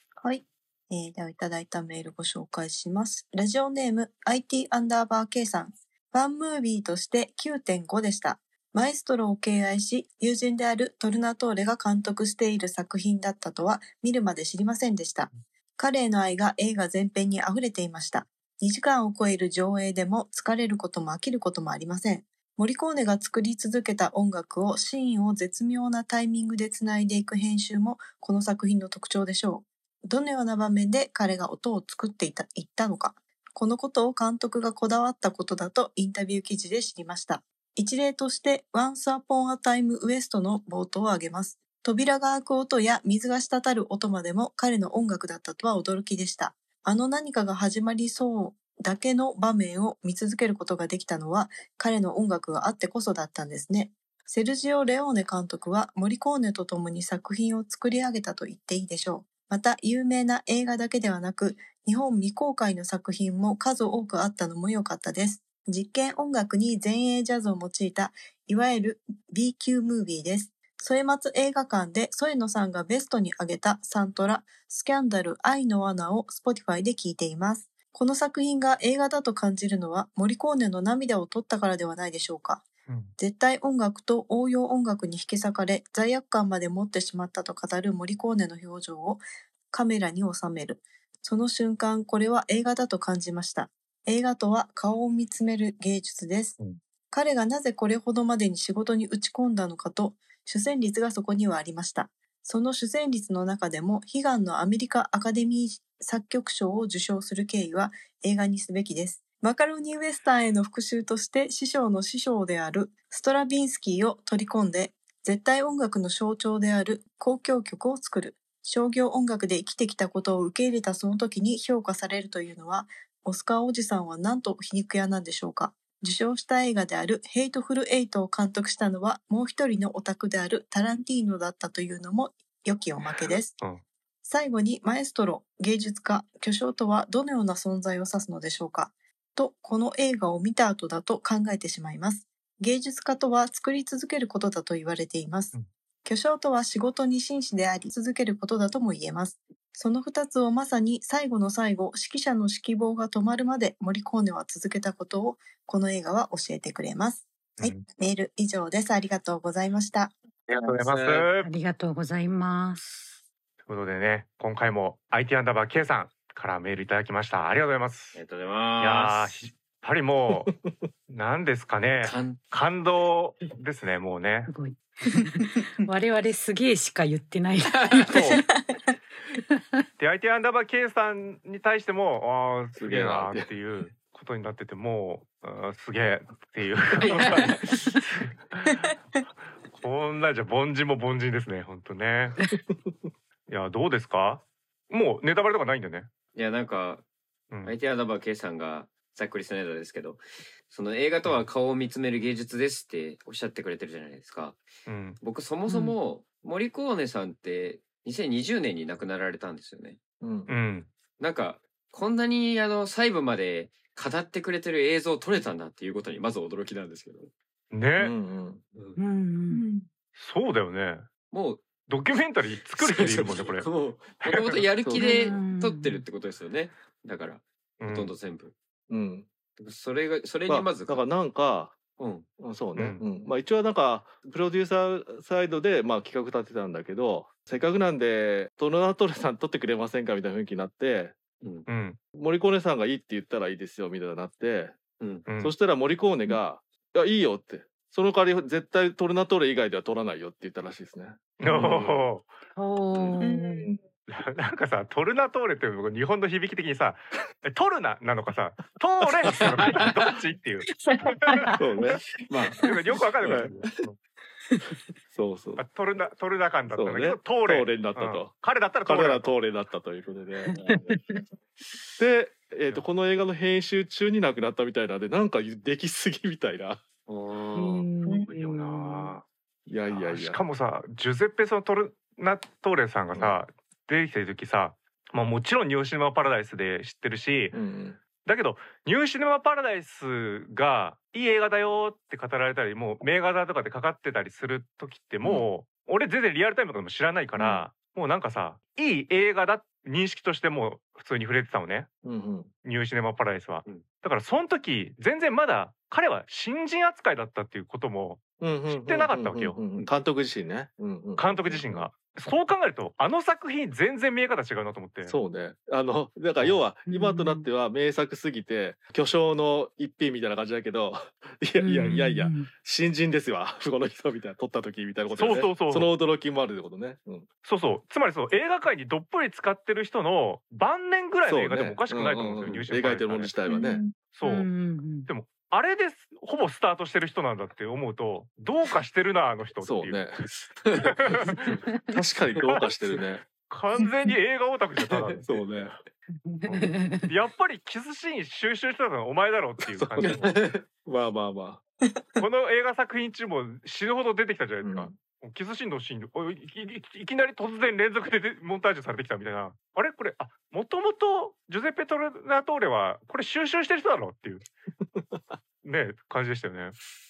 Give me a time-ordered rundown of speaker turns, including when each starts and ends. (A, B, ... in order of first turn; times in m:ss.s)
0:00.2-1:22.6 A
1:22.9-1:23.1 B
1:23.2-1:36.6 A
1:37.1-2:13.6 A
2:14.2-2:25.5 A
2:26.0-2:40.1 A
2:37.6-2:37.8 B
2:40.5-2:41.5 B
2:40.8-2:41.3 C
2:41.4-2:43.1 D
2:43.7-2:48.2 B
2:48.1-2:49.4 C
2:48.8-2:50.5 B
2:51.1-2:54.5 B
2:52.0-2:52.4 C
2:54.5-2:58.5 D
2:57.7-2:58.1 C
2:59.3-2:59.6 D
3:00.0-3:08.9 B
3:02.8-3:03.5 E
3:07.2-3:07.4 C
3:09.7-3:12.4 B
3:13.5-3:16.1 B
3:16.3-3:17.0 C
3:17.5-3:17.8 B
3:17.6-3:24.6 C
3:24.8-3:25.2 B
3:25.2-3:30.0 C
3:25.7-3:26.0 D
3:30.2-3:30.5 E
3:30.5-3:30.9 B
3:31.2-3:37.3 C
3:37.7-3:38.1 B
3:38.0-3:38.6 E
3:39.0-3:39.6 D
3:39.5-3:39.8 A
3:40.2-3:41.1 B
3:41.3-3:41.6 C
3:41.9-3:43.7 B
3:42.7-3:48.5 C
3:44.2-3:44.6 B
3:44.8-3:45.4 E
3:45.0-3:46.0 D
3:47.8-3:48.1 B
3:48.9-3:49.2 E
3:49.6-3:51.0 C
3:50.5-3:51.8 E
3:52.0-3:52.3 C
3:52.4-4:01.2 E
3:52.7-3:53.0 B
4:01.4-4:01.7 C
4:01.7-4:02.0 B
4:02.1-4:04.8 E
4:05.0-4:05.2 C
4:05.3-4:05.5 B
4:05.4-4:11.2 E
4:11.4-4:12.2 B
4:11.5-4:12.0 C
4:12.6-4:13.7 D
4:12.9-4:13.3 C
4:13.2-4:13.7 A
4:14.1-4:20.7 B
4:20.8-4:21.6 D
4:21.6-4:22.1 E
4:22.3-4:22.6 C
4:22.6-4:24.0 B
4:23.2-4:23.5 C
4:23.2-4:23.8 E
4:25.1-4:25.6 E
4:25.6-4:29.3 B
4:26.7-4:30.6 E
4:30.5-4:31.2 D
4:32.0-4:36.8 E
4:37.1-4:37.9 C
4:37.5-4:39.1 D
4:38.3-4:39.2 B
4:39.7-4:40.4 E
4:39.9-4:47.6 B
4:47.5-4:48.0 E
4:48.2-5:01.9 B
4:57.4-4:57.7 E
5:02.0-5:02.5 E
5:02.6-5:09.6 B
5:08.4-5:11.9 E
5:11.2-5:15.2 B
5:15.0-5:27.2 E
5:16.9-5:17.5 D
5:21.6-5:22.5 D
5:25.1-5:25.9 B
5:27.4-5:33.3 B
5:31.2-5:33.8 E
5:33.5-5:33.9 A
5:34.1-5:34.5 B
5:34.2-5:35.1 D
5:35.0-5:40.1 B
5:39.6-5:41.1 E
5:40.7-5:41.6 C
5:40.8-5:41.6 B
5:41.9-5:43.2 E
5:42.3-5:42.7 B
5:43.5-5:45.4 B
5:44.9-5:45.2 C
5:45.2-5:45.8 E
5:46.2-5:47.1 D
5:46.4-5:50.3 B
5:49.6-5:51.6 E
5:52.2-6:04.5 B
5:54.6-5:55.0 E
6:04.9-6:05.4 E
6:05.6-6:06.8 B